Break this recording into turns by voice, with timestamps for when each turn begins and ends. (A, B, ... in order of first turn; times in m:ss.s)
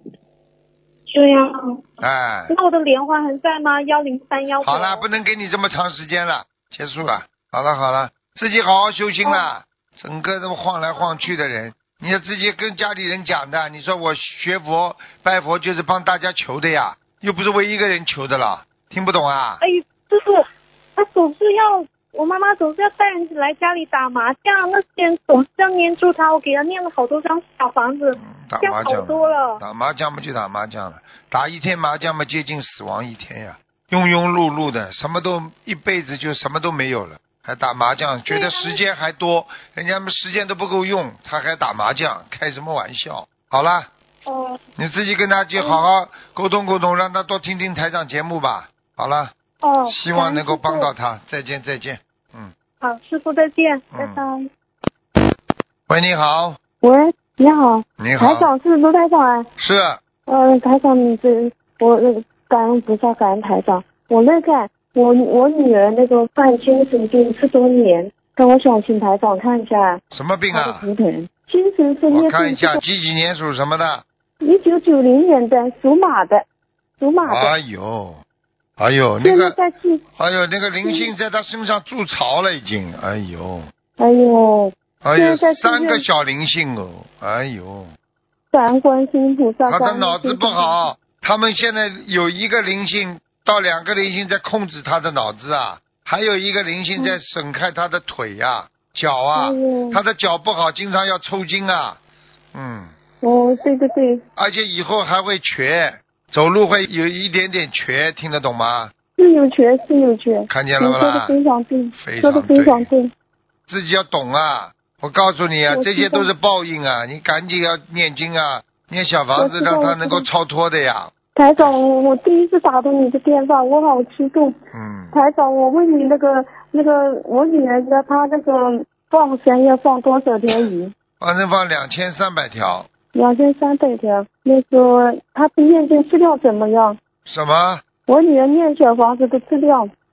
0:01.1-0:01.9 A
0:02.0-0:02.5 B
0:02.5-0:05.0 A
0:04.6-0:19.6 B
0:19.6-0:29.6 A
0:28.2-0:43.9 B
0:38.3-0:38.8 A
0:44.3-0:44.6 A
0:44.8-0:49.3 B
0:45.6-0:45.8 A
0:49.6-0:50.9 A
0:49.9-0:52.5 B
0:52.8-0:54.5 A
0:53.9-0:54.2 B
0:55.9-0:56.6 B
0:56.8-0:59.5 C
0:58.0-0:58.5 B
0:59.6-1:00.0 B
1:00.3-1:12.8 C
1:10.1-1:10.9 B
1:12.1-1:14.0 B
1:14.4-1:16.4 C
1:17.0-1:17.6 C
1:17.2-1:18.2 B
1:18.8-1:19.6 B
1:19.2-1:20.0 C
1:20.2-1:23.7 B
1:20.8-1:21.1 C
1:24.0-1:26.0 C
1:25.0-1:27.9 B
1:28.5-1:30.8 C
1:29.7-1:42.0 B
1:39.4-1:40.0 C
1:42.5-1:42.9 B
1:43.2-1:44.2 C
1:44.4-1:48.9 B
1:49.2-1:53.1 C
1:50.5-1:51.4 B
1:52.0-1:52.9 B
1:53.7-2:01.7 B
1:55.7-1:56.3 C
1:59.4-2:00.3 C
2:01.4-2:04.6 C
2:04.7-2:05.2 B
2:05.1-2:10.9 C
2:11.2-2:12.9 B
2:13.1-2:17.0 C
2:17.3-2:17.8 B
2:18.1-2:19.9 C